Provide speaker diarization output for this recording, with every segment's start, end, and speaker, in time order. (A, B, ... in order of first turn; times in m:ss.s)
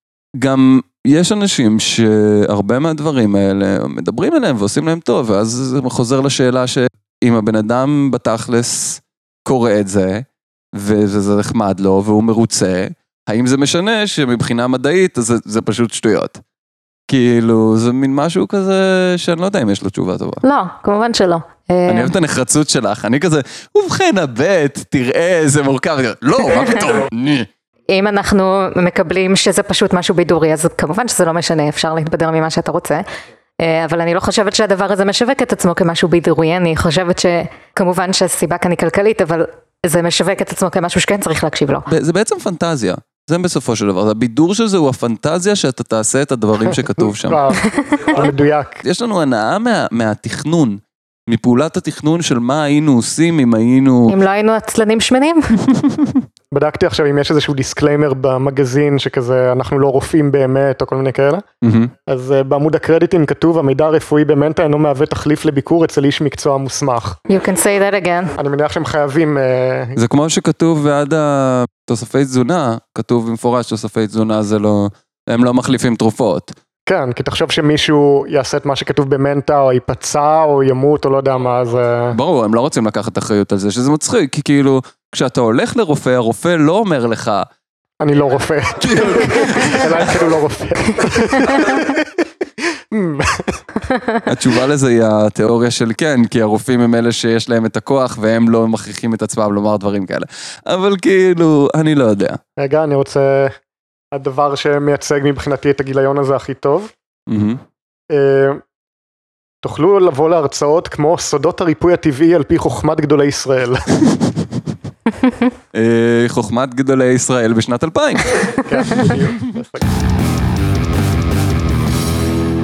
0:00.4-0:16.4 A
0:17.1-0:20.4 A
0:20.4-0:22.1 B
0:21.9-0:27.5 A
0:27.9-0:33.0 B
0:33.6-0:41.9 B
0:41.9-0:47.4 A
0:47.0-0:48.8 C
0:47.6-0:48.1 B
0:48.8-0:54.2 A
0:54.1-0:55.5 B
0:55.7-0:56.2 A
0:56.5-1:01.4 C
1:01.6-1:01.9 A
1:02.1-1:07.2 C
1:07.3-1:08.4 B
1:08.4-1:10.0 C
1:10.0-1:16.6 A
1:16.9-1:22.2 C
1:22.1-1:27.5 A
1:28.0-1:32.1 C
1:28.8-1:30.2 A
1:31.2-1:31.8 B
1:32.9-1:33.6 C
1:33.9-1:34.2 B
1:34.2-1:42.4 A
1:42.6-1:43.6 C
1:44.1-1:46.9 C
1:47.3-1:47.6 A
1:48.1-1:48.6 C
1:49.6-1:53.8 C
1:55.7-1:59.2 A
1:58.6-1:59.8 C